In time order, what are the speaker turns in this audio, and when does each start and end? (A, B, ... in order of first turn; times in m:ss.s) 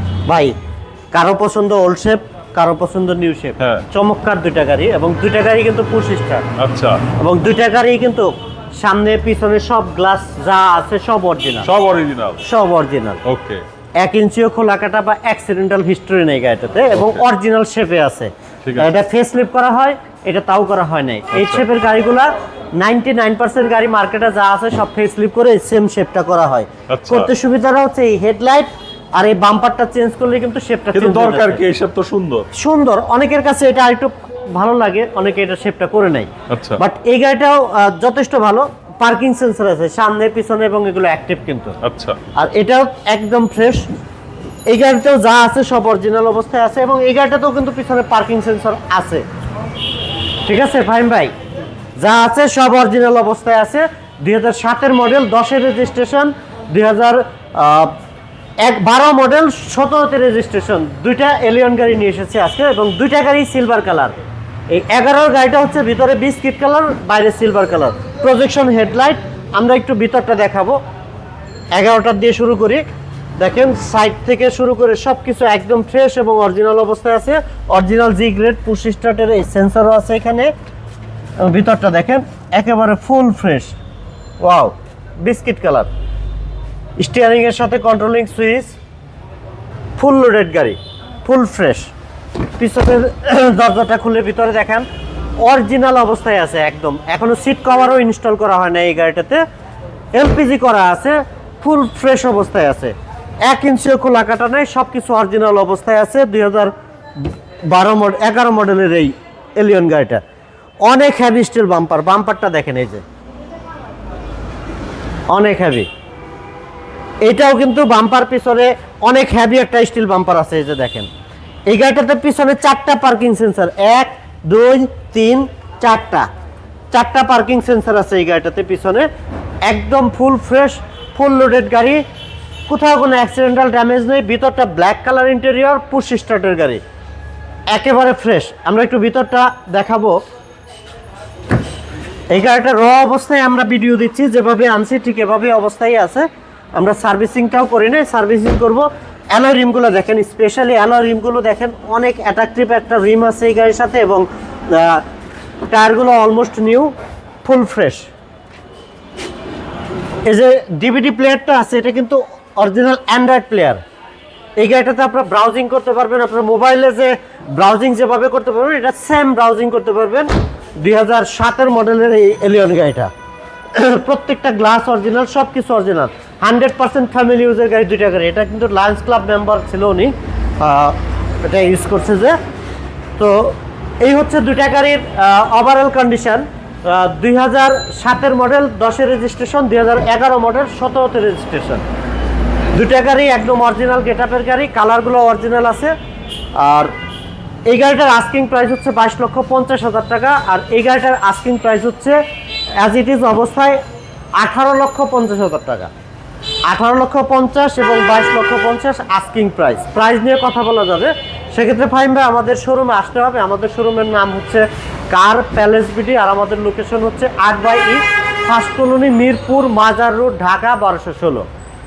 0:00.3-0:00.5 A
0:01.1-0:06.4 A
0:06.6-0:07.0 B
0:07.2-0:11.7 A
0:11.6-0:12.4 B
0:12.4-0:13.2 A
0:13.2-0:13.6 B
0:14.0-0:31.6 A
0:18.6-0:18.9 B
0:21.3-0:21.6 B
0:26.9-0:27.3 B
0:30.9-0:32.5 B
0:32.5-0:41.8 A
0:36.5-0:36.8 B
0:41.8-0:42.2 B
0:42.3-0:43.9 A
0:44.7-0:49.2 A
0:50.4-0:51.3 A
0:52.0-0:58.0 A
0:58.6-1:04.2 A
1:04.7-1:10.8 A
1:11.7-1:12.8 A
1:13.4-1:20.5 A
1:21.4-1:23.7 A
1:24.4-1:25.9 A
1:27.0-1:28.7 A
1:30.0-1:31.9 A
1:32.6-1:34.8 A
1:35.4-1:39.4 A
1:40.1-1:46.7 A
1:47.2-1:50.2 A
1:50.8-1:53.0 A
1:55.3-1:55.9 A
1:57.2-2:01.1 A
2:01.7-2:06.3 A
2:06.9-2:09.0 A
2:09.6-2:12.0 A
2:12.7-2:16.8 A
2:17.7-2:20.2 A
2:22.3-2:35.0 A
2:35.7-2:36.9 A
2:37.4-2:38.1 A
2:40.2-2:43.8 A
2:44.6-2:53.1 A
2:53.7-3:02.4 A
3:03.2-3:11.8 A
3:12.7-3:15.9 A
3:16.6-3:16.9 A
3:17.6-3:22.2 A
3:22.8-3:23.8 A
3:24.4-3:25.9 A
3:26.7-3:41.4 A